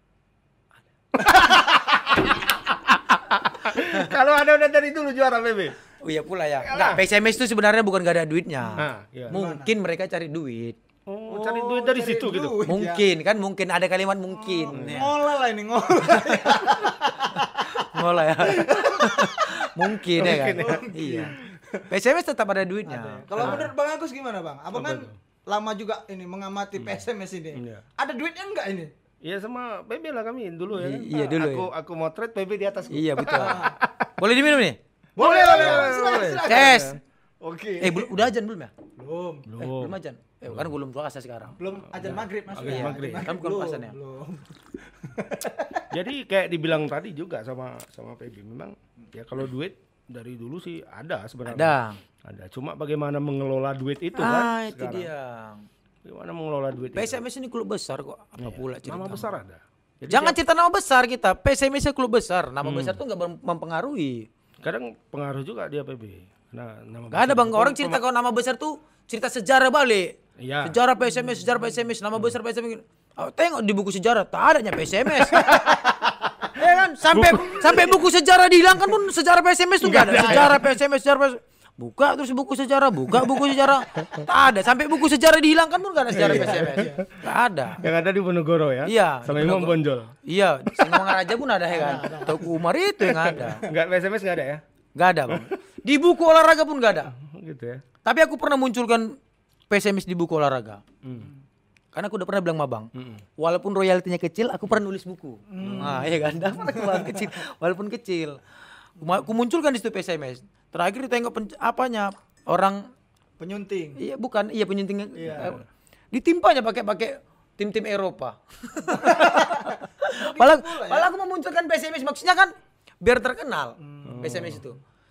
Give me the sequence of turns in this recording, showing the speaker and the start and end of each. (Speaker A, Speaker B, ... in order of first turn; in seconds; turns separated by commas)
Speaker A: 1.2-1.5, Speaker B: 1.2-5.8, Speaker A: 3.6-4.2, Speaker A: 6.0-10.8, Speaker B: 6.7-7.0, Speaker B: 8.8-9.4, Speaker C: 9.3-9.7, Speaker B: 11.1-12.7, Speaker C: 11.3-13.1, Speaker A: 12.6-15.1, Speaker C: 14.3-17.9, Speaker B: 14.7-15.0, Speaker A: 16.3-21.4, Speaker C: 18.4-19.5, Speaker B: 20.1-20.9, Speaker C: 20.6-21.9, Speaker A: 21.9-23.7, Speaker C: 22.9-28.9, Speaker B: 23.3-23.7, Speaker B: 24.7-25.1, Speaker B: 27.6-27.9, Speaker B: 29.2-34.1, Speaker A: 30.8-31.7, Speaker A: 32.9-37.0, Speaker C: 33.4-33.8, Speaker C: 35.2-36.9, Speaker B: 35.2-37.0, Speaker C: 37.4-38.1, Speaker A: 37.8-38.7, Speaker C: 39.0-39.5, Speaker B: 39.5-40.0, Speaker A: 39.6-41.6, Speaker C: 41.6-45.9, Speaker B: 41.9-43.3, Speaker A: 42.6-44.0, Speaker B: 45.9-55.1, Speaker A: 51.5-52.0, Speaker A: 54.1-55.7, Speaker B: 56.0-57.2, Speaker A: 56.9-59.3, Speaker B: 58.4-60.4, Speaker A: 60.1-64.3, Speaker B: 62.6-63.0, Speaker B: 64.6-68.0, Speaker A: 67.1-75.7, Speaker B: 70.4-70.8, Speaker C: 75.6-76.2, Speaker A: 76.5-87.8, Speaker B: 77.1-77.9, Speaker B: 79.8-80.7, Speaker C: 86.1-87.0, Speaker B: 86.1-87.0, Speaker B: 87.8-90.1, Speaker A: 88.8-93.7, Speaker B: 90.8-91.0, Speaker C: 91.7-92.5, Speaker B: 93.1-94.6, Speaker A: 95.0-97.1, Speaker B: 95.3-95.6, Speaker B: 97.1-97.8, Speaker A: 98.0-99.2, Speaker A: 99.7-100.8, Speaker B: 101.0-101.3, Speaker A: 101.9-108.4, Speaker B: 103.0-103.2, Speaker C: 105.5-107.3, Speaker B: 105.6-106.1, Speaker A: 109.0-112.8, Speaker C: 113.4-114.0, Speaker A: 114.0-124.8, Speaker C: 115.2-115.5, Speaker C: 118.9-121.1, Speaker C: 123.8-124.6, Speaker B: 124.0-124.6